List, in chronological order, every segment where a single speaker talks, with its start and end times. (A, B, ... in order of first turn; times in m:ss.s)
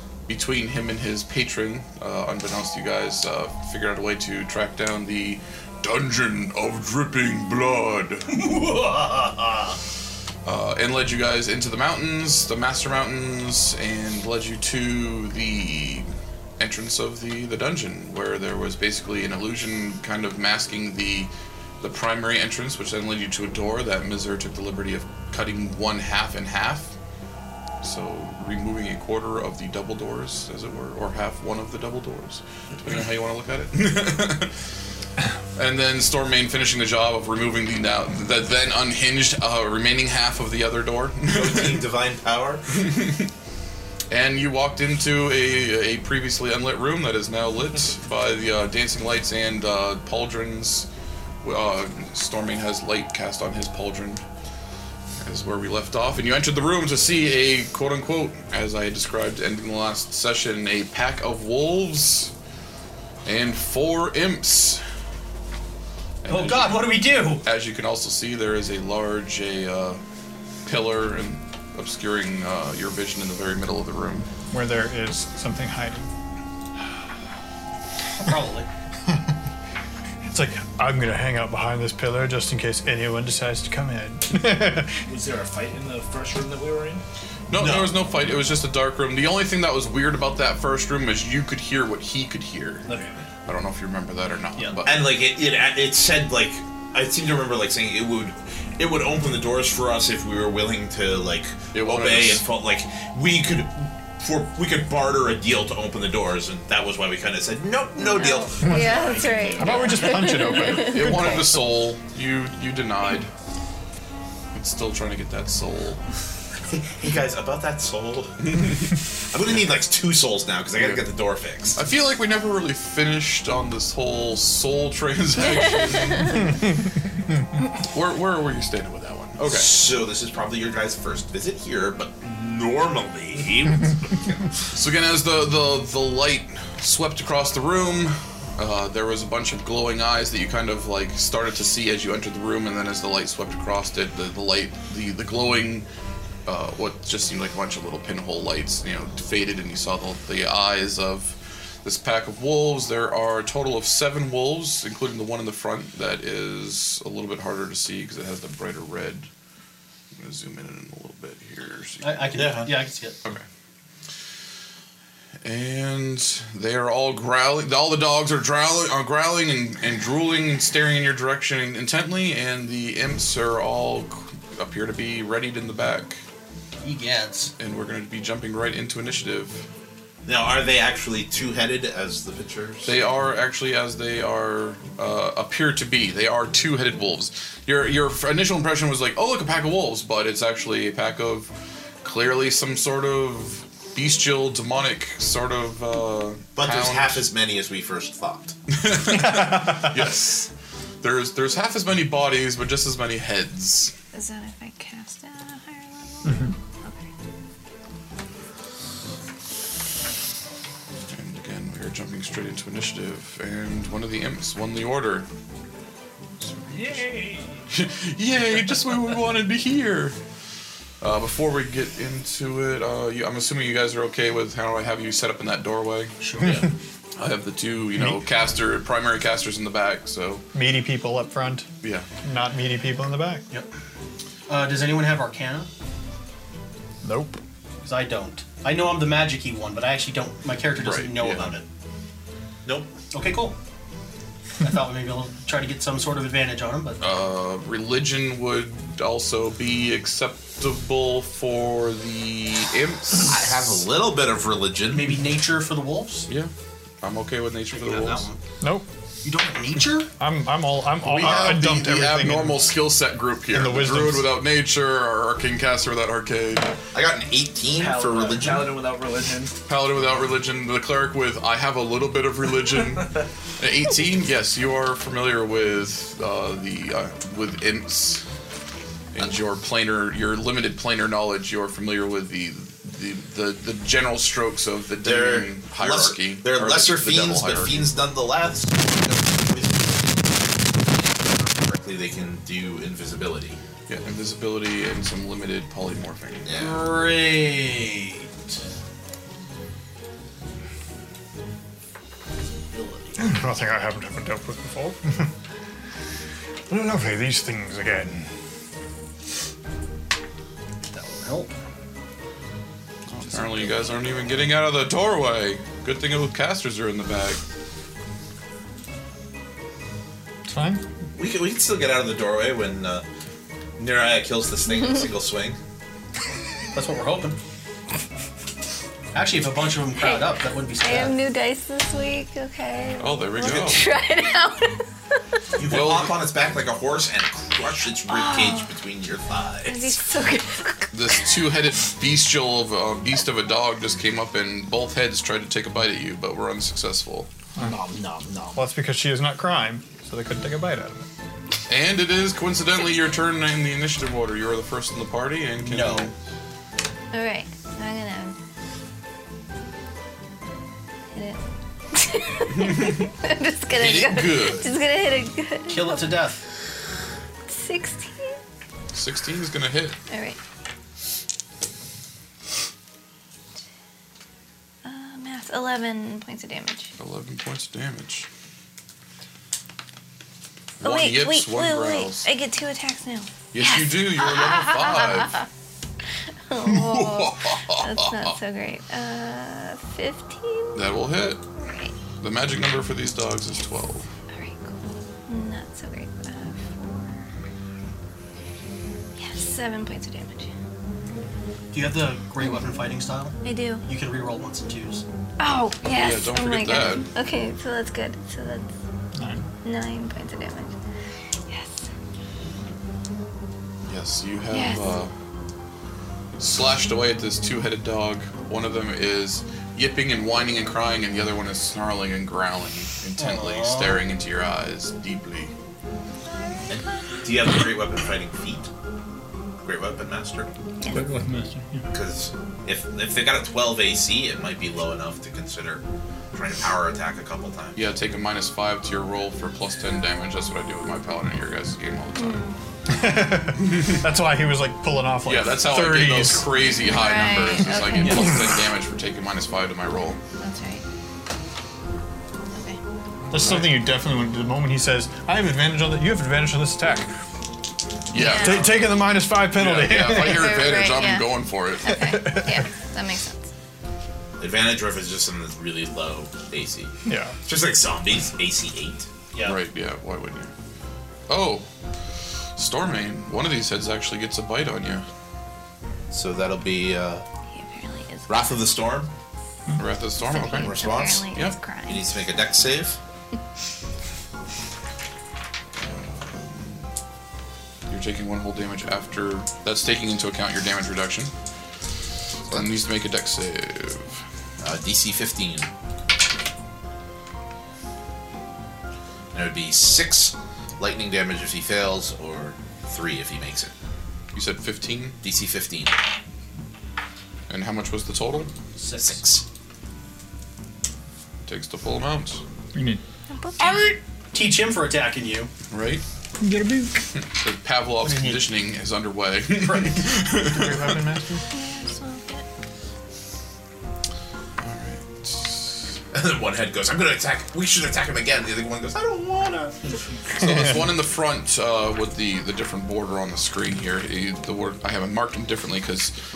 0:00.3-0:08.3 A
0:08.3-0:09.8 B
0:10.4-0:16.1 A
0:16.6-0:21.3 A
0:21.8-0:26.9 A
0:27.8-0:34.6 A
0:35.6-0:41.9 A
0:41.3-0:42.8 C
0:42.7-0:43.3 A
0:44.1-0:50.9 A
0:51.4-0:54.2 A
0:55.2-1:02.3 A
1:03.2-1:04.8 A
1:06.2-1:10.0 A
1:06.3-1:07.4 B
1:10.7-1:14.3 A
1:14.5-1:16.1 D
1:18.2-1:18.7 B
1:20.2-1:25.0 D
1:25.0-1:27.0 E
1:27.5-1:32.8 A
1:27.6-1:28.0 C
1:32.9-1:33.2 E
1:33.5-1:35.0 A
1:34.8-1:49.2 C
1:41.7-1:42.5 A
1:48.0-1:51.3 F
1:48.6-1:50.5 E
1:49.6-1:51.7 D
1:50.4-1:53.3 A
1:54.5-1:56.0 A
1:56.7-1:58.7 C
1:58.4-1:58.9 A
1:59.3-2:01.8 C
2:01.8-2:06.7 A
2:05.4-2:06.5 F
2:07.9-2:09.8 A
2:09.4-2:14.5 C
2:14.7-2:25.9 A
2:26.5-2:39.3 A
2:40.2-2:42.6 A
2:42.0-2:43.2 B
2:42.4-2:42.7 C
2:45.4-2:56.2 A
2:56.8-2:57.5 B
2:57.6-2:59.7 A
3:00.3-3:03.0 C
3:02.8-3:11.5 A
3:12.0-3:17.2 A
3:16.6-3:18.5 C
3:18.7-3:20.5 A
3:19.1-3:20.0 D
3:21.0-3:23.9 A
3:24.1-3:27.1 F
3:26.3-3:26.5 D
3:31.1-3:35.3 A
3:36.7-3:37.6 E
3:37.7-3:40.2 A
3:41.0-3:46.2 A
3:46.2-3:46.7 B
3:46.4-3:46.7 D
3:47.2-3:50.4 A
3:48.0-3:48.2 D
3:50.5-3:51.7 D
3:51.8-3:52.1 A
3:52.2-3:53.4 D
3:54.5-3:55.7 B
3:57.0-3:57.4 D
3:57.8-4:01.6 B
4:00.8-4:01.6 A
4:02.7-4:02.9 C
4:03.1-4:03.6 B
4:04.6-4:07.0 B
4:07.0-4:13.7 A
4:13.2-4:15.2 C
4:14.9-4:16.3 B
4:17.0-4:18.3 A
4:17.7-4:18.4 B
4:18.6-4:18.9 D
4:19.2-4:20.1 B
4:20.2-4:22.6 D
4:21.0-4:26.8 A
4:21.2-4:21.5 B
4:23.5-4:24.3 D
4:26.9-4:28.8 C
4:27.8-4:29.6 E
4:29.7-4:38.2 A
4:39.1-4:47.9 A
4:45.0-4:53.6 C
4:53.9-4:56.5 A
4:56.4-4:56.8 C
4:56.5-4:58.3 B
5:02.7-5:03.3 B
5:03.2-5:05.3 D
5:06.7-5:08.3 D
5:10.9-5:11.6 B
5:13.1-5:17.4 A
5:13.4-5:13.9 B
5:20.5-5:20.8 D
5:21.2-5:23.0 C
5:23.8-5:25.6 C
5:26.7-5:27.4 B
5:29.1-5:31.2 B
5:30.0-5:35.2 F
5:33.0-5:33.8 A
5:33.4-5:33.7 C
5:35.6-5:40.0 C
5:35.7-5:36.2 A
5:38.1-5:38.8 F
5:39.6-5:41.3 F
5:40.9-5:47.3 A
5:47.6-5:48.6 E
5:48.6-5:51.1 D
5:51.7-5:56.1 A
5:55.6-5:56.1 B
5:57.1-5:58.4 F
6:01.1-6:01.4 F
6:01.9-6:06.2 F
6:02.5-6:03.1 A
6:03.8-6:04.7 A
6:05.7-6:06.4 B
6:07.5-6:08.4 F
6:08.9-6:10.0 A
6:10.1-6:10.4 F
6:14.8-6:16.9 F
6:17.0-6:18.3 A
6:20.8-6:22.3 A
6:20.8-6:25.5 F
6:23.5-6:25.4 A
6:26.5-6:30.9 F
6:26.6-6:28.4 A
6:30.7-6:31.4 A
6:31.6-6:31.9 F
6:32.2-6:34.1 A
6:34.3-6:37.2 F
6:39.2-6:40.5 F
6:41.7-6:45.0 B
6:43.4-6:43.8 F
6:45.4-6:48.7 F
6:46.0-6:47.1 A
6:49.2-6:49.5 D
6:49.6-6:50.7 F
6:51.5-6:51.9 F
6:53.8-6:55.1 A
6:54.5-6:54.9 F
6:56.4-7:05.5 A
7:03.2-7:04.0 B
7:06.6-7:06.8 F
7:07.2-7:08.7 C
7:09.6-7:10.5 C
7:10.8-7:11.8 D
7:11.9-7:17.8 C
7:17.8-7:22.4 A
7:22.2-7:22.6 F
7:22.9-7:26.5 D
7:23.6-7:24.0 A
7:25.2-7:30.2 A
7:26.7-7:28.4 F
7:30.4-7:30.8 F
7:32.5-7:32.8 F
7:33.3-7:33.8 A
7:33.3-7:37.1 D
7:38.1-7:42.1 A
7:38.1-7:38.7 F
7:38.4-7:40.5 D
7:40.2-7:43.5 F
7:42.0-7:42.7 D
7:44.4-7:46.9 C
7:47.0-7:47.4 D
7:47.4-7:49.1 C
7:49.3-7:49.6 B
7:49.4-7:50.5 A
7:51.3-7:51.7 A
7:52.6-7:55.0 A
7:56.1-7:57.2 C
7:57.5-7:58.5 F
7:58.3-7:59.1 C
7:59.8-8:00.8 A
8:00.2-8:02.1 F
8:00.6-8:01.3 C
8:01.8-8:03.0 C
8:05.8-8:06.8 A
8:07.9-8:11.3 A
8:12.5-8:14.2 A
8:14.6-8:15.7 C
8:19.3-8:23.7 C
8:24.3-8:25.2 A
8:25.2-8:26.0 C
8:27.5-8:28.5 A
8:28.8-8:29.2 B
8:29.0-8:29.4 C
8:31.5-8:32.4 A
8:32.7-8:33.0 D
8:33.3-8:33.8 F
8:33.6-8:35.5 B
8:35.7-8:36.0 A
8:36.4-8:37.1 D
8:37.3-8:41.1 A
8:38.0-8:38.5 B
8:39.5-8:40.2 B
8:40.4-8:41.5 D
8:41.5-8:42.4 F
8:44.6-8:45.9 A
8:46.1-8:49.8 C
8:50.4-8:56.1 A